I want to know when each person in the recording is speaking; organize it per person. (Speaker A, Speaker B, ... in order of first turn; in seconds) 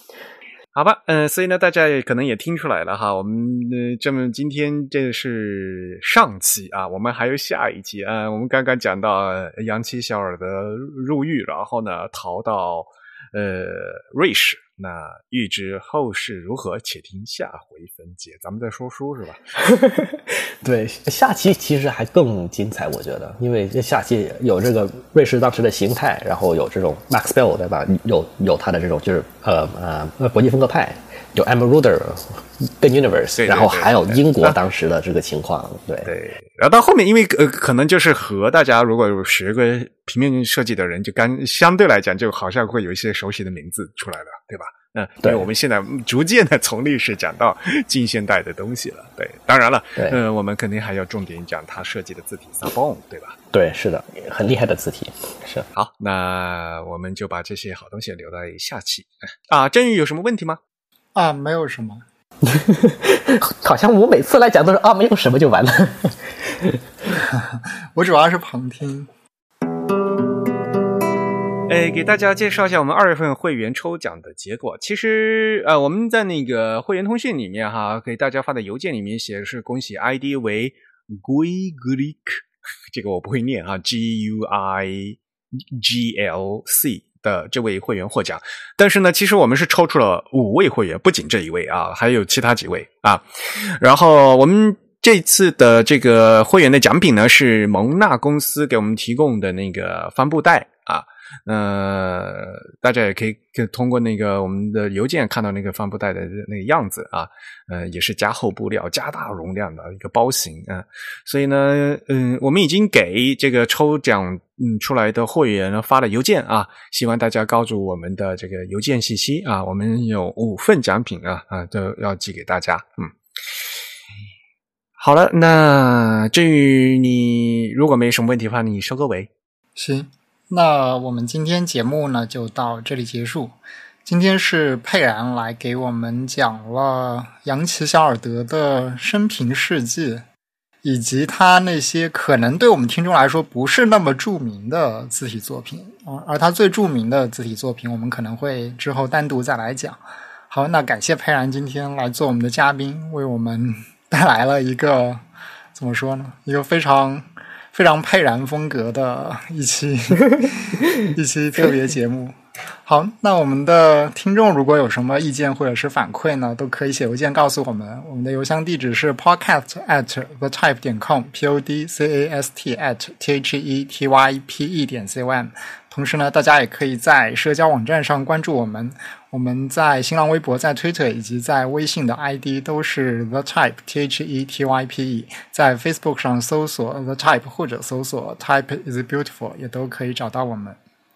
Speaker A: 0.7-19.6, 33.4-34.6, 36.0-53.4, 55.7-60.6, 71.7-123.1, 125.0-129.3
Speaker B: 19.6-36.1, 45.2-45.5, 53.5-55.7, 62.4-66.8
Speaker C: 61.1-62.0, 67.2-69.1, 129.8-140.2, 140.8-155.2, 155.7-190.8